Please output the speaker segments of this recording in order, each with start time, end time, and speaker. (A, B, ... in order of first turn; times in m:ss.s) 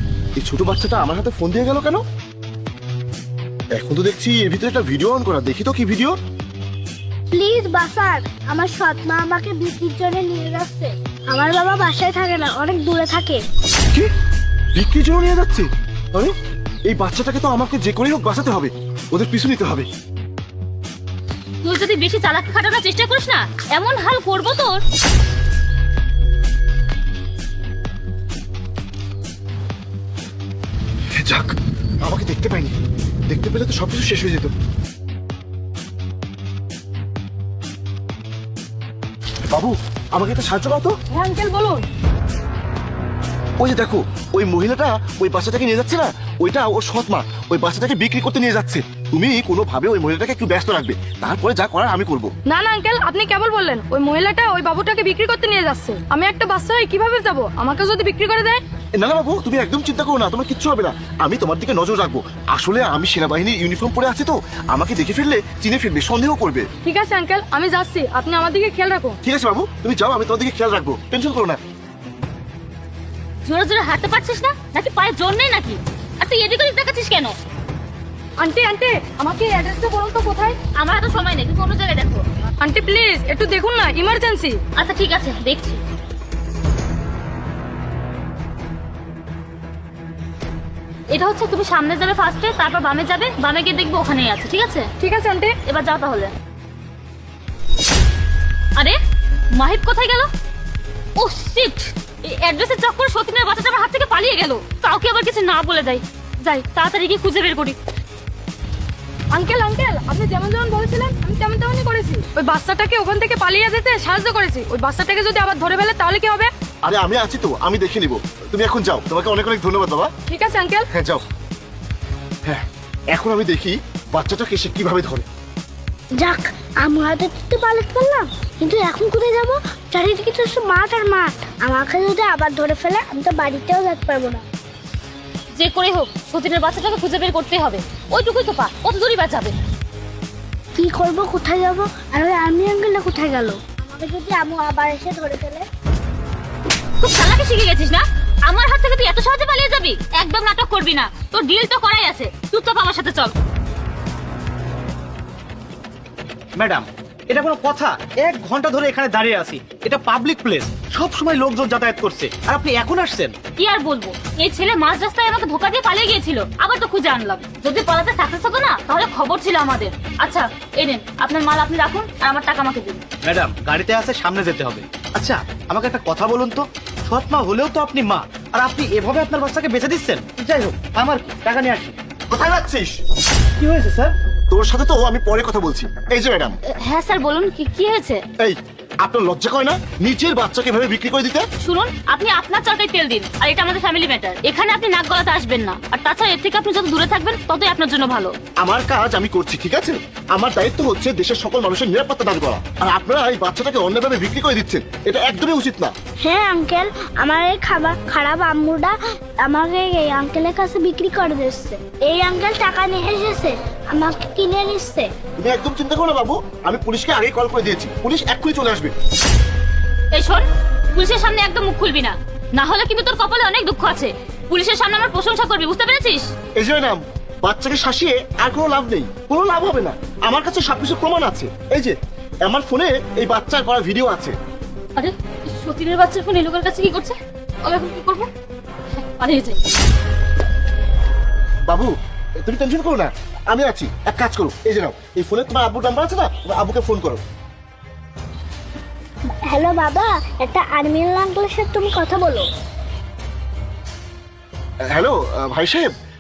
0:00.4-0:02.0 A
0:03.7-0:06.2 A
0:07.3-0:13.4 B
0:14.8-0:16.3 A
0:16.9-0:19.9 A
0:21.6-0:24.8 C
0:31.2-0:32.8 A
0:33.3-0:34.5 A
0:39.5-0:41.0 A
0:41.1-0:41.8 D
0:43.6-0:52.3 A
0:52.5-0:58.6 D
0:59.0-1:06.7 A
1:06.8-1:09.2 D
1:09.2-1:11.6 A
1:13.4-1:17.3 C
1:18.4-1:20.6 D
1:20.8-1:22.2 C
1:22.6-1:24.6 D
1:24.8-1:25.8 C
1:31.1-1:34.9 C
1:35.0-1:35.6 D
1:35.7-1:36.3 C
1:39.6-1:40.3 C
1:41.2-1:46.0 C
1:46.6-1:47.8 C
1:49.3-1:56.5 D
1:56.8-2:00.1 A
2:00.3-2:00.9 D
2:00.9-2:01.2 A
2:02.5-2:05.3 A
2:06.2-2:14.4 B
2:15.5-2:19.6 C
2:20.8-2:25.6 B
2:27.0-2:33.3 C
2:36.6-2:43.4 E
2:43.6-2:53.0 C
2:53.2-3:02.0 E
3:02.3-3:03.0 A
3:03.6-3:04.2 E
3:04.5-3:06.6 A
3:06.7-3:08.2 C
3:08.4-3:11.4 A
3:11.6-3:18.3 C
3:18.6-3:25.9 A
3:26.2-3:35.1 B
3:35.4-3:38.9 A
3:40.1-3:46.3 C
3:46.6-3:54.4 A
3:55.0-3:58.3 C
3:59.0-3:59.6 C
4:01.7-4:07.2 A
4:09.5-4:12.4 B
4:14.9-4:15.9 A